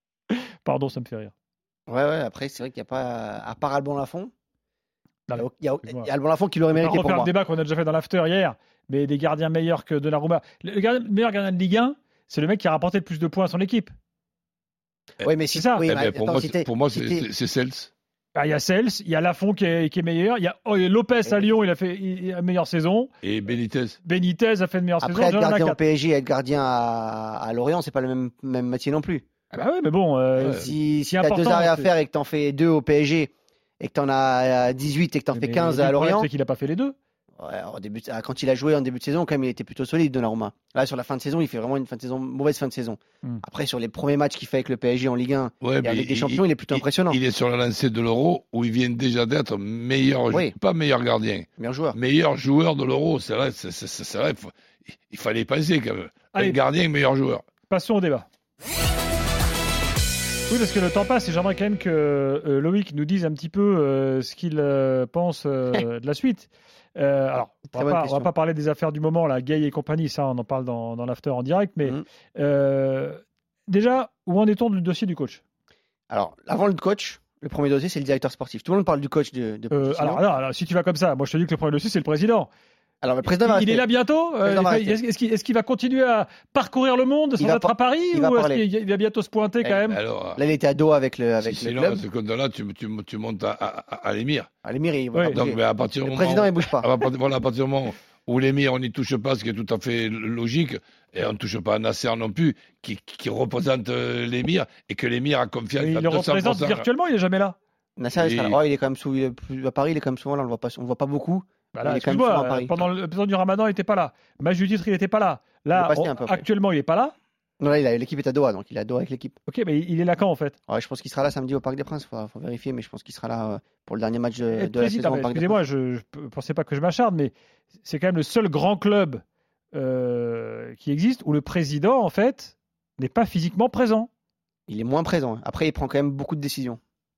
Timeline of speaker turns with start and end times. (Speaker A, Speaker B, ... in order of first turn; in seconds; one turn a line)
Speaker A: 0.6-1.3
Speaker B: 1.9-4.3
Speaker A: 5.3-6.1
Speaker B: 5.3-7.3
Speaker A: 6.7-13.9
Speaker B: 15.2-17.3
Speaker A: 15.5-15.9
Speaker C: 15.9-17.9
Speaker A: 18.3-23.1
Speaker C: 23.2-24.0
Speaker A: 24.0-25.8
Speaker B: 25.0-29.2
Speaker A: 29.5-31.9
Speaker B: 30.4-36.3
Speaker C: 30.4-30.7
Speaker A: 35.3-37.0
Speaker B: 37.4-47.2
Speaker C: 45.6-57.4
Speaker B: 50.3-50.5
Speaker B: 51.6-52.0
Speaker A: 57.7-58.3
Speaker A: 60.5-75.4
Speaker B: 67.7-68.3
Speaker B: 76.1-80.2
Speaker A: 79.7-82.5
Speaker B: 83.0-83.9
Speaker A: 83.3-90.0
Speaker B: 84.4-85.0
Speaker B: 87.4-88.6
Speaker C: 89.8-90.4
Speaker B: 90.3-92.0
Speaker C: 91.4-94.5
Speaker B: 94.6-96.9
Speaker A: 95.1-95.4
Speaker C: 95.3-106.8
Speaker A: 105.8-107.6
Speaker B: 108.0-112.7
Speaker C: 108.1-108.6
Speaker A: 111.7-117.2
Speaker B: 115.7-116.4
Speaker B: 117.6-119.4
Speaker A: 119.5-120.6
Speaker B: 120.7-125.6
Speaker A: 124.5-134.1
Speaker B: 134.7-136.8